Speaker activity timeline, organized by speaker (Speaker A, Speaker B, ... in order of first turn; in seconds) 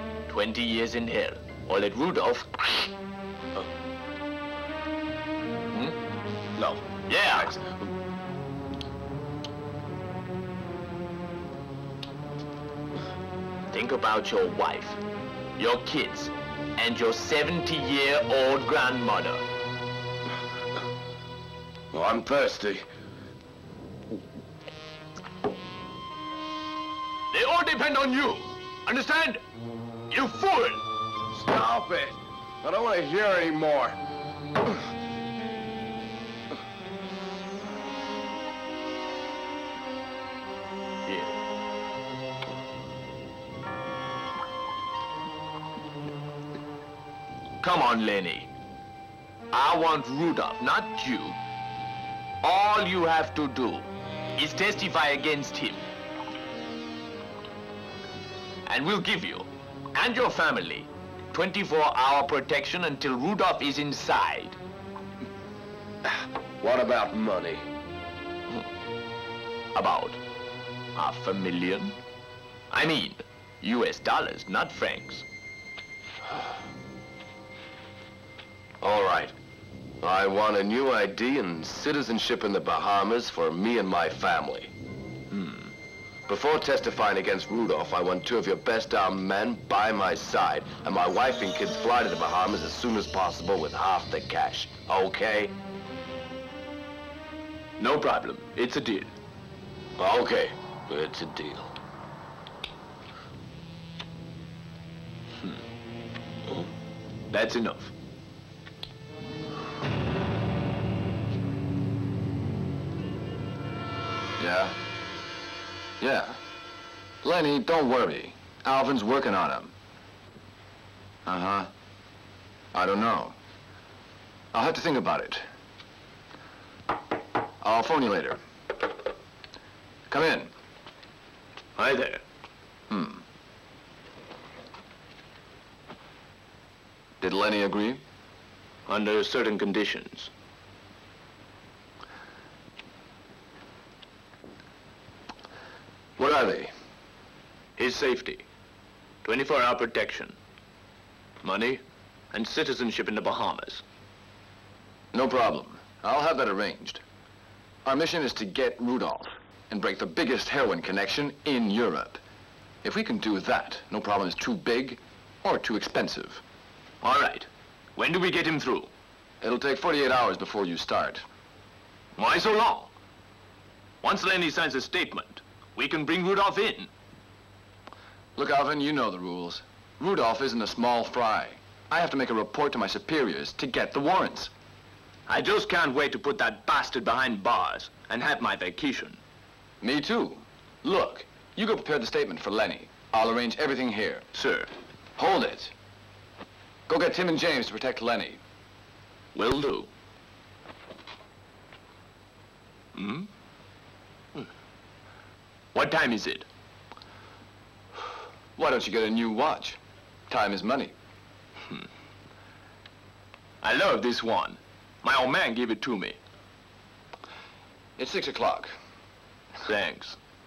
Speaker A: 0.3-2.9, 6.6-7.6, 13.7-15.0, 15.6-19.4, 27.3-29.4, 30.1-30.8, 41.1-41.3, 47.6-48.5, 49.5-51.4, 52.4-55.8, 58.6-64.6, 69.7-70.2, 71.0-72.0, 72.7-75.2, 85.3-85.7, 97.8-99.1, 107.3-107.9, 131.8-132.2, 138.9-140.3, 147.8-148.4, 149.2-150.4, 151.4-151.8, 152.3-153.8, 167.0-168.9, 172.2-172.9, 174.0-176.9, 185.3-189.2, 194.3-194.7, 199.3-199.9, 203.0-203.3, 205.7-206.5, 213.6-216.2, 219.6-220.2
Speaker B: 21.9-22.9, 31.4-34.0, 66.1-67.7, 78.8-79.3, 80.0-84.7, 86.3-95.5, 100.0-101.7
Speaker C: 114.4-114.8, 116.0-116.4, 117.2-119.7, 121.3-121.7, 122.7-123.3, 124.5-125.5, 127.6-128.4, 130.1-130.5, 132.9-133.2, 137.2-138.0, 146.2-146.7, 155.1-157.0, 157.8-162.2, 162.8-166.4, 169.4-171.2, 178.4-184.5, 189.8-194.2, 195.2-195.7, 196.9-198.4, 208.6-210.9, 218.0-218.8